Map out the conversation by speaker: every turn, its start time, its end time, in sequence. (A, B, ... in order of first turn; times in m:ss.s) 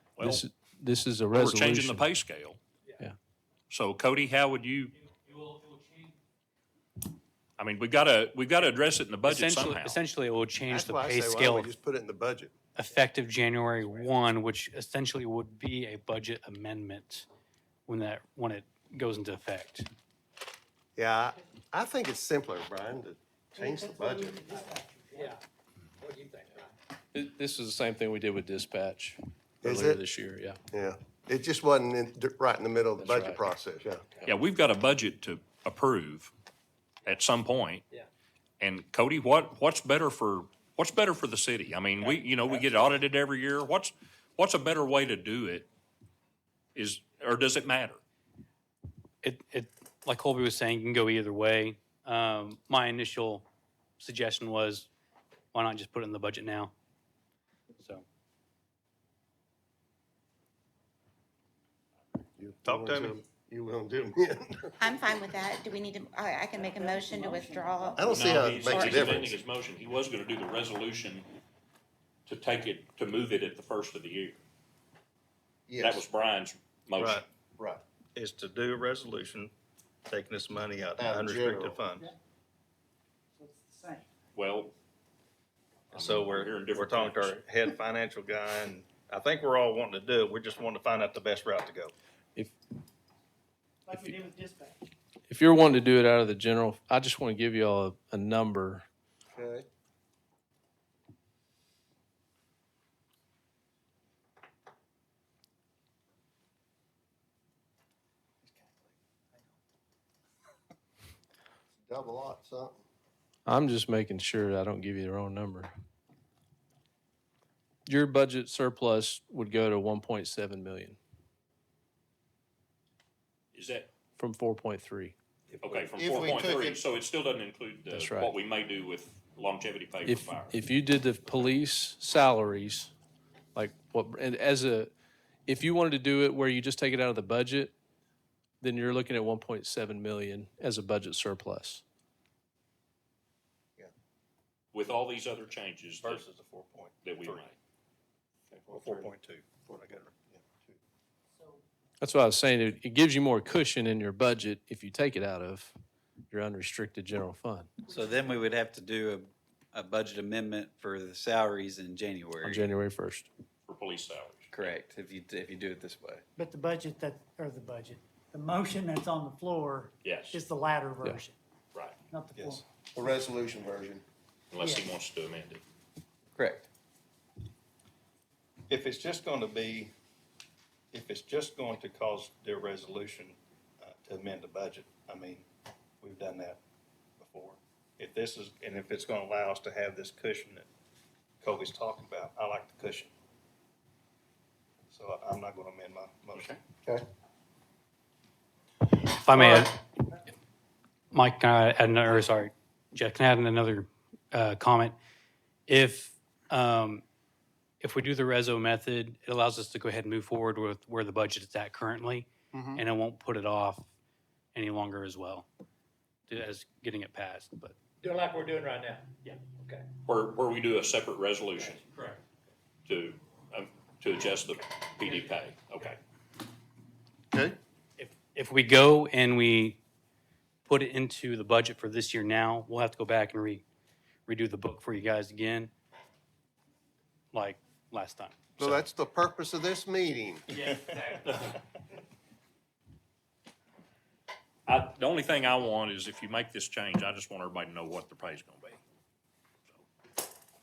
0:00.2-0:00.4 A
0:00.2-0:02.1 B
0:01.3-0:02.6 A
0:03.7-0:04.9 A
0:07.6-0:10.0 A
0:09.2-0:11.7 C
0:10.7-0:12.5 D
0:12.8-0:17.2 C
0:17.9-0:19.8 C
0:21.0-0:24.5 D
0:23.6-0:25.4 E
0:26.0-0:26.7 F
0:27.1-0:30.6 B
0:29.6-0:30.0 D
0:30.7-0:34.2 D
0:33.0-0:33.4 B
0:34.2-0:36.3 A
0:37.0-0:37.8 A
0:38.6-0:45.7 A
0:46.7-0:48.0 A
0:49.2-0:53.4 C
0:54.0-0:54.9 C
0:55.5-0:56.7 C
0:57.8-0:58.0 C
1:02.4-1:04.8 D
1:02.6-1:03.2 G
1:04.8-1:09.2 H
1:06.6-1:07.9 E
1:08.0-1:09.4 D
1:08.1-1:11.3 A
1:12.3-1:14.4 A
1:15.7-1:16.0 D
1:15.8-1:17.2 A
1:17.0-1:17.2 G
1:17.6-1:17.8 D
1:18.1-1:19.5 G
1:20.1-1:22.1 G
1:21.0-1:21.8 D
1:23.4-1:24.1 E
1:24.3-1:24.7 A
1:25.9-1:27.4 A
1:25.9-1:31.9 G
1:33.9-1:34.8 E
1:33.9-1:34.2 B
1:35.3-1:38.8 B
1:39.3-1:39.6 D
1:51.9-1:52.8 D
1:53.4-1:55.7 B
1:57.8-2:01.0 B
2:03.5-2:03.9 A
2:04.2-2:05.1 B
2:05.6-2:10.5 A
2:05.9-2:06.8 D
2:07.9-2:08.3 B
2:10.0-2:12.9 B
2:13.5-2:14.9 B
2:15.4-2:17.7 B
2:18.6-2:21.8 B
2:24.7-2:26.2 A
2:26.0-2:27.5 G
2:27.0-2:27.5 A
2:28.5-2:30.1 G
2:28.7-2:29.1 D
2:29.6-2:30.8 D
2:32.0-2:35.8 B
2:36.3-2:37.7 B
2:37.9-2:42.7 I
2:42.4-2:43.3 B
2:43.7-2:44.8 A
2:44.5-2:46.2 I
2:46.4-2:51.4 E
2:50.0-2:50.4 A
2:52.1-2:52.6 E
2:52.3-2:52.6 G
2:52.9-2:54.0 D
2:54.5-2:55.6 A
2:56.3-2:56.7 I
2:58.7-2:59.9 G
3:00.9-3:05.4 G
3:06.0-3:06.6 G
3:07.2-3:10.7 G
3:11.4-3:13.1 G
3:14.9-3:16.6 G
3:19.0-3:19.8 C
3:21.1-3:25.0 C
3:25.7-3:27.0 C
3:27.8-3:33.9 C
3:32.5-3:32.8 D
3:34.5-3:35.5 C
3:36.3-3:37.8 C
3:38.0-3:39.8 F
3:40.0-3:41.8 A
3:42.8-3:46.0 A
3:47.3-3:47.6 D
3:48.0-3:49.8 C
3:50.6-3:53.6 C
3:54.3-3:55.7 C
3:57.3-3:58.8 C
3:58.6-4:00.5 D
4:04.7-4:08.8 A